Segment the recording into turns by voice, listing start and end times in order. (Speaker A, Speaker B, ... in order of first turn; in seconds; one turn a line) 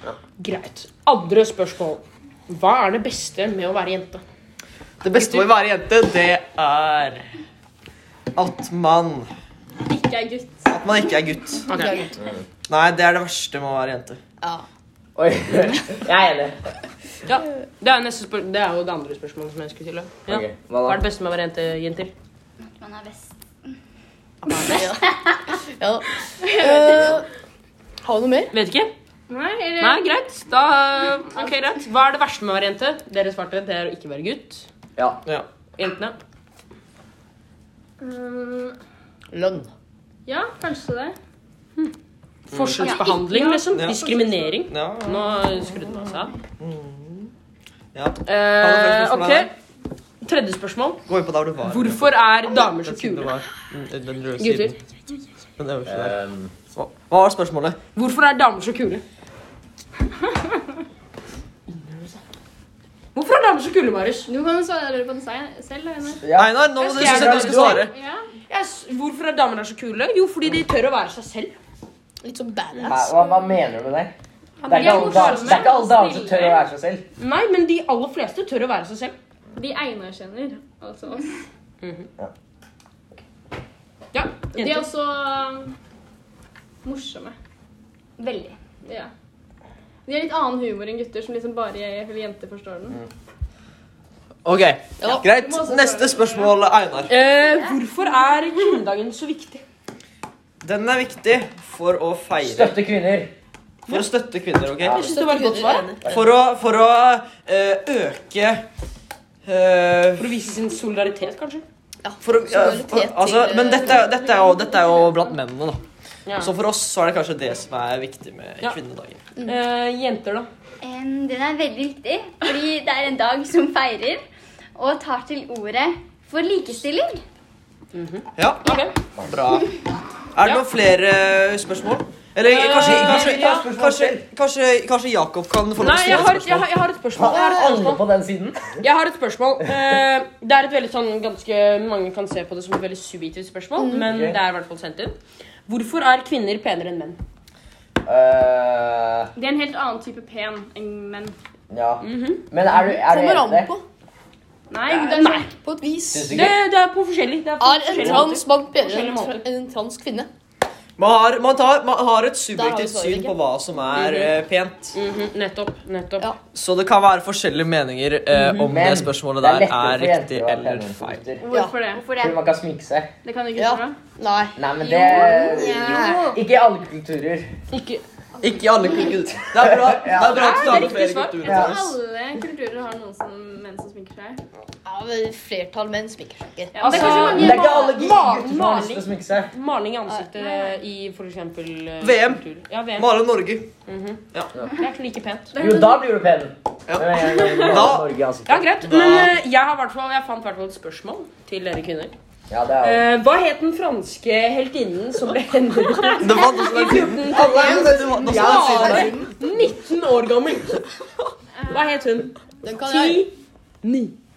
Speaker A: 0.4-4.2
Speaker B: 5.0-7.2
Speaker B: 8.3-9.3
Speaker C: 9.8-10.7
Speaker B: 10.7-11.6
Speaker A: 11.7-12.1
Speaker D: 11.7-12.2
Speaker B: 12.7-14.2
Speaker E: 15.2-16.6
Speaker A: 17.2-22.1
Speaker E: 20.3-21.0
Speaker F: 22.6-23.8
Speaker D: 24.4-27.2
Speaker F: 26.6-27.0
Speaker D: 28.0-28.5
Speaker A: 28.5-28.9
Speaker C: 29.3-30.1
Speaker A: 29.8-34.7
Speaker A: 35.8-36.2
Speaker C: 38.0-38.8
Speaker D: 39.3-39.7
Speaker C: 40.2-41.1
Speaker A: 42.5-46.3
Speaker C: 42.8-44.6
Speaker F: 42.8-43.2
Speaker B: 43.7-44.0
Speaker B: 44.7-45.4
Speaker B: 46.6-47.3
Speaker B: 47.9-49.5
Speaker A: 48.2-49.5
Speaker A: 50.2-51.0
Speaker B: 51.1-52.1
Speaker A: 51.6-53.3
Speaker B: 52.8-54.7
Speaker A: 54.4-54.7
Speaker B: 55.6-56.2
Speaker E: 55.9-56.5
Speaker B: 56.7-57.8
Speaker A: 58.0-59.0
Speaker A: 61.7-62.2
Speaker A: 63.1-64.3
Speaker C: 64.3-66.2
Speaker E: 66.2-67.9
Speaker B: 66.3-67.9
Speaker A: 66.8-67.9
Speaker C: 67.6-68.3
Speaker A: 68.5-71.5
Speaker D: 72.2-73.1
Speaker E: 72.8-74.1
Speaker A: 74.6-75.7
Speaker E: 74.7-77.0
Speaker C: 74.7-76.6
Speaker A: 77.2-79.1
Speaker C: 79.5-81.4
Speaker A: 81.8-82.1
Speaker A: 84.1-84.8
Speaker C: 84.5-85.7
Speaker C: 86.8-87.3
Speaker F: 88.2-88.6
Speaker C: 88.8-89.1
Speaker C: 90.0-93.0
Speaker B: 94.4-97.1
Speaker C: 95.2-96.5
Speaker A: 97.1-99.6
Speaker F: 97.4-97.8
Speaker B: 100.6-102.8
Speaker E: 102.4-103.3
Speaker B: 103.9-105.0
Speaker A: 104.9-106.0
Speaker D: 104.9-106.1
Speaker B: 106.0-108.7
Speaker B: 109.4-110.3
Speaker A: 110.2-111.6
Speaker D: 112.0-114.1
Speaker B: 112.2-115.8
Speaker C: 114.5-114.9
Speaker A: 116.3-116.5
Speaker B: 116.4-119.2
Speaker A: 119.4-120.5
Speaker F: 120.8-124.2
Speaker F: 124.7-127.2
Speaker A: 127.9-128.9
Speaker B: 128.4-129.8
Speaker B: 130.3-136.7
Speaker A: 132.4-133.6
Speaker E: 132.7-134.2
Speaker A: 135.8-138.0
Speaker E: 137.1-138.8
Speaker D: 137.2-137.8
Speaker A: 138.8-147.2
Speaker D: 143.8-144.1
Speaker E: 144.0-144.4
Speaker E: 148.0-149.3
Speaker C: 149.3-151.3
Speaker E: 151.7-153.7
Speaker A: 152.0-152.4
Speaker D: 152.7-153.8
Speaker C: 154.7-155.5
Speaker A: 154.9-155.5
Speaker D: 155.6-156.4
Speaker E: 156.1-156.5
Speaker A: 156.3-159.4
Speaker D: 157.6-160.3
Speaker B: 161.0-165.0
Speaker D: 162.5-163.3
Speaker A: 163.9-164.3
Speaker A: 164.9-166.3
Speaker B: 166.5-171.2
Speaker A: 168.3-168.7
Speaker E: 168.6-171.4
Speaker C: 171.4-172.1
Speaker D: 171.5-171.8
Speaker F: 171.9-172.4
Speaker E: 172.2-173.1
Speaker C: 173.2-174.0
Speaker D: 173.6-176.3
Speaker E: 174.6-177.5
Speaker F: 175.2-176.4
Speaker A: 177.7-178.0
Speaker B: 178.4-181.9
Speaker F: 178.8-179.1
Speaker E: 179.5-180.8
Speaker A: 180.2-181.4
Speaker C: 181.4-184.4
Speaker E: 181.4-181.8
Speaker D: 184.8-187.4
Speaker C: 186.7-187.7
Speaker A: 186.8-193.1
Speaker F: 186.9-188.0
Speaker E: 187.2-189.5
Speaker B: 192.0-192.4
Speaker B: 192.9-193.7
Speaker A: 193.9-195.6
Speaker C: 195.5-196.1
Speaker E: 195.6-198.8
Speaker B: 196.9-198.1
Speaker C: 197.2-197.7
Speaker A: 198.4-202.1
Speaker B: 198.8-199.3
Speaker E: 202.5-203.0
Speaker A: 202.8-210.9
Speaker B: 206.2-209.2
Speaker D: 207.3-209.3
Speaker E: 208.1-209.1
Speaker C: 211.5-212.0
Speaker A: 211.7-214.2
Speaker D: 212.6-213.2